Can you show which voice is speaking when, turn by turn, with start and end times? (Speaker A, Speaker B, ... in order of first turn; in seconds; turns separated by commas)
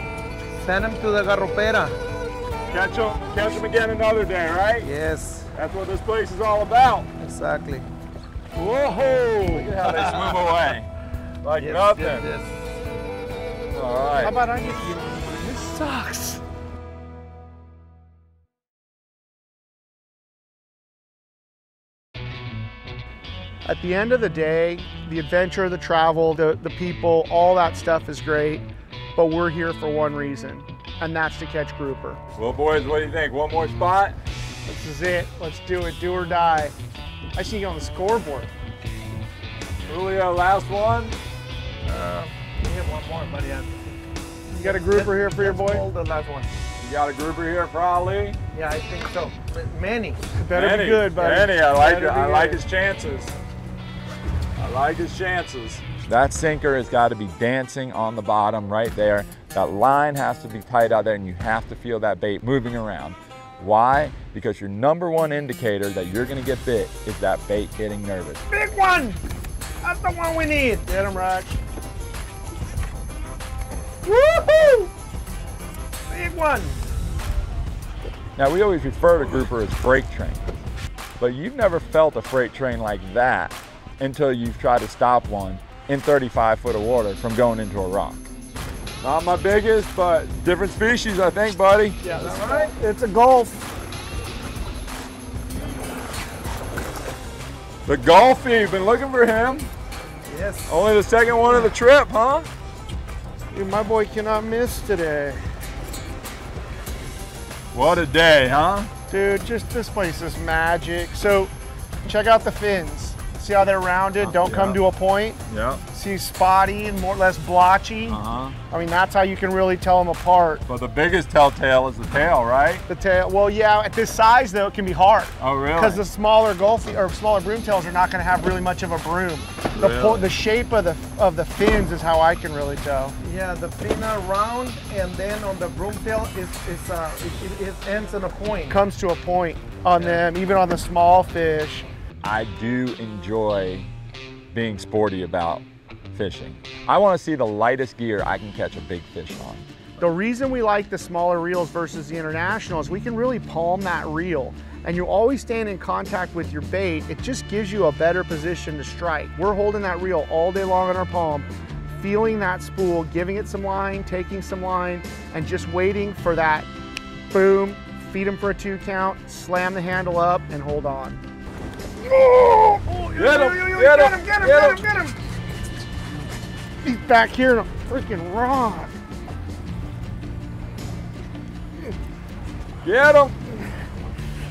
Speaker A: 0.6-2.0, Speaker B: 2.7-4.9, Speaker A: 4.8-5.5, Speaker B: 5.5-7.1, Speaker A: 7.2-7.9, Speaker B: 8.6-10.9, Speaker A: 9.5-10.6, Speaker B: 11.4-12.3, Speaker A: 11.6-12.5, Speaker B: 13.7-14.4, Speaker C: 14.2-16.4, Speaker C: 23.7-32.2, Speaker B: 32.4-34.2, Speaker C: 34.7-36.7, Speaker C: 37.4-38.5, Speaker B: 39.9-41.2, Speaker A: 41.9-43.9, Speaker C: 44.5-45.8, Speaker A: 44.5-46.5, Speaker B: 46.8-48.4, Speaker A: 48.5-50.2, Speaker C: 50.4-52.6, Speaker B: 50.5-53.4, Speaker B: 54.6-68.4, Speaker A: 68.5-69.2, Speaker A: 69.8-71.4, Speaker C: 70.9-71.5, Speaker A: 74.1-74.9, Speaker A: 76.1-76.8, Speaker B: 78.4-80.7, Speaker B: 81.2-88.2, Speaker B: 89.0-92.0, Speaker C: 92.0-93.6, Speaker A: 92.0-92.7, Speaker B: 97.9-99.7, Speaker A: 100.3-100.7, Speaker B: 100.7-102.5, Speaker C: 103.5-105.4, Speaker B: 107.7-108.9, Speaker C: 109.1-111.5, Speaker C: 112.0-115.4, Speaker B: 114.2-114.8, Speaker B: 115.5-115.8, Speaker C: 115.9-120.6, Speaker B: 118.1-118.6, Speaker B: 120.7-122.9, Speaker C: 122.9-133.2, Speaker B: 125.4-126.0, Speaker B: 129.8-130.3, Speaker A: 133.2-138.8, Speaker C: 138.7-141.9, Speaker A: 140.0-140.2, Speaker B: 142.2-143.9, Speaker B: 144.5-149.7, Speaker C: 150.0-161.5, Speaker C: 162.0-166.7, Speaker C: 167.3-171.2, Speaker A: 172.9-174.8, Speaker B: 173.2-174.8, Speaker C: 174.0-175.1, Speaker C: 176.8-178.9, Speaker B: 182.8-183.4